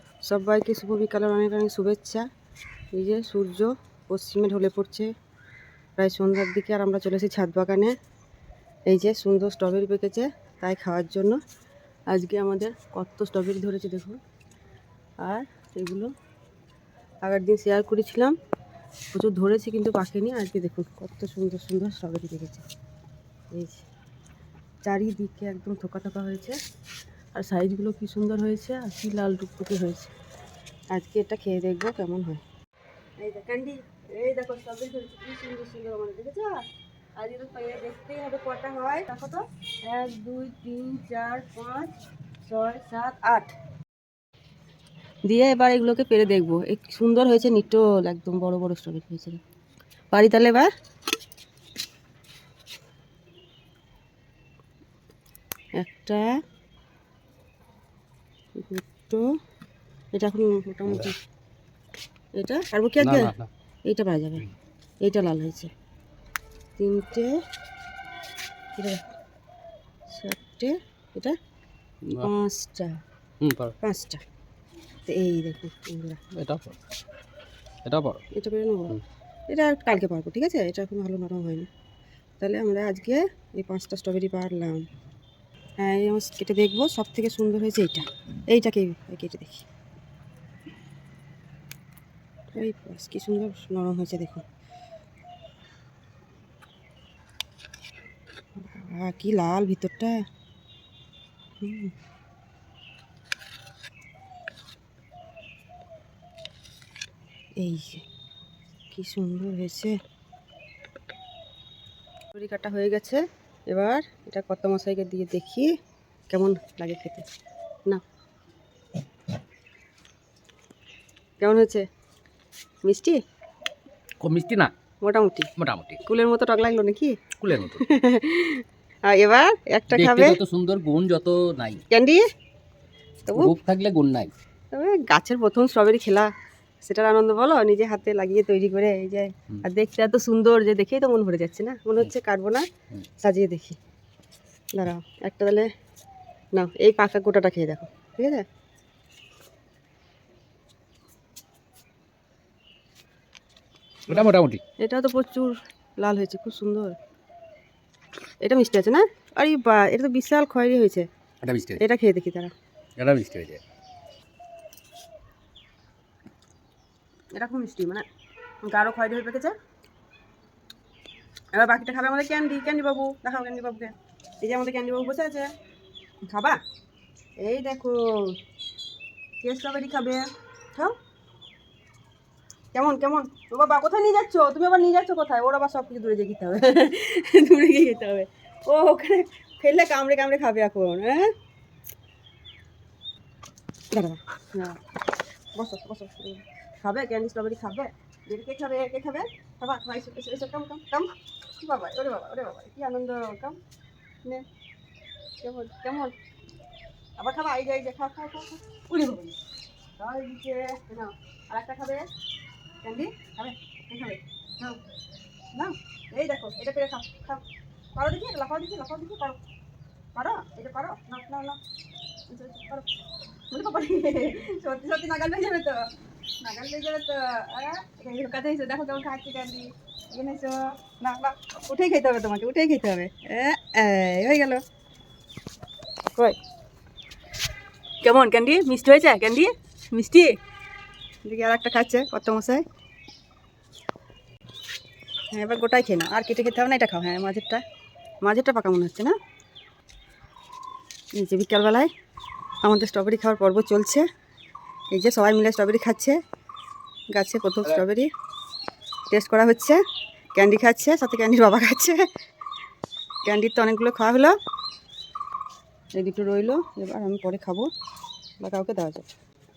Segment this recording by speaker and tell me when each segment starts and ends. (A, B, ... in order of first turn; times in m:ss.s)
0:00.3-0:02.2 A
0:02.9-0:05.1 A
0:06.0-0:07.9 A
0:08.9-0:11.4 A
0:12.1-0:14.2 A
0:15.2-0:16.1 A
0:17.2-0:18.3 A
0:19.1-0:22.6 A
0:23.5-0:23.8 A
0:24.8-0:26.6 A
0:27.3-0:30.1 A
0:30.9-0:32.4 A
0:33.2-0:36.6 A
0:37.2-0:43.5 A
0:45.2-0:49.4 A
0:50.1-0:50.7 A
0:55.8-0:56.3 A
0:58.6-0:59.2 A
1:00.1-1:01.2 A
1:02.4-1:03.3 A
1:03.0-1:03.5 B
1:03.9-1:04.5 A
1:05.0-1:05.7 A
1:06.8-1:07.3 A
1:08.8-1:09.0 A
1:10.1-1:11.4 A
1:12.0-1:12.3 B
1:12.2-1:13.0 A
1:13.4-1:13.7 B
1:13.8-1:14.2 A
1:15.1-1:16.2 A
1:16.4-1:16.8 B
1:17.8-1:18.2 B
1:18.3-1:19.0 A
1:19.5-1:21.7 A
1:22.4-1:24.8 A
1:25.8-1:29.6 A
1:32.5-1:34.4 A
1:38.6-1:40.2 A
1:41.6-1:41.9 A
1:47.6-1:48.0 A
1:48.9-1:50.0 A
1:52.3-1:55.7 A
1:56.3-1:57.2 A
2:01.4-2:01.8 A
2:02.8-2:03.2 A
2:04.2-2:04.7 B
2:05.0-2:05.5 A
2:05.6-2:06.0 B
2:06.0-2:07.2 A
2:07.4-2:07.8 B
2:07.7-2:10.4 A
2:09.9-2:11.8 B
2:11.9-2:12.3 A
2:13.3-2:14.3 B
2:14.7-2:16.3 A
2:16.8-2:22.7 A
2:23.2-2:23.8 A
2:24.7-2:25.7 A
2:26.5-2:28.4 A
2:34.1-2:34.6 B
2:34.8-2:37.0 A
2:38.4-2:41.1 A
2:41.4-2:41.8 B
2:41.8-2:42.5 A
2:43.0-2:43.6 B
2:47.3-2:48.0 A
2:48.6-2:49.5 A
2:51.5-2:55.5 A
2:56.2-2:56.6 A
2:57.4-2:58.3 A
2:59.4-3:01.0 A
3:02.7-3:11.3 A
3:13.9-3:14.8 A
3:15.6-3:23.6 A
3:25.4-3:26.1 A
3:27.2-3:29.4 A
3:30.0-3:32.1 A
3:32.8-3:34.8 A
3:35.5-3:37.4 A
3:38.0-3:39.4 A
3:40.1-3:41.6 A
3:42.3-3:42.9 A
3:43.5-3:54.6 A
3:58.0-4:00.4 A
4:01.2-4:02.6 A
4:05.3-4:07.6 A
4:08.2-4:09.2 A
4:11.1-4:11.9 A
4:12.6-4:14.0 A
4:14.9-4:16.2 A
4:17.1-4:18.1 A
4:19.1-4:19.8 A
4:20.4-4:22.0 A
4:23.2-4:24.3 A
4:25.9-4:27.7 A
4:28.4-4:29.1 A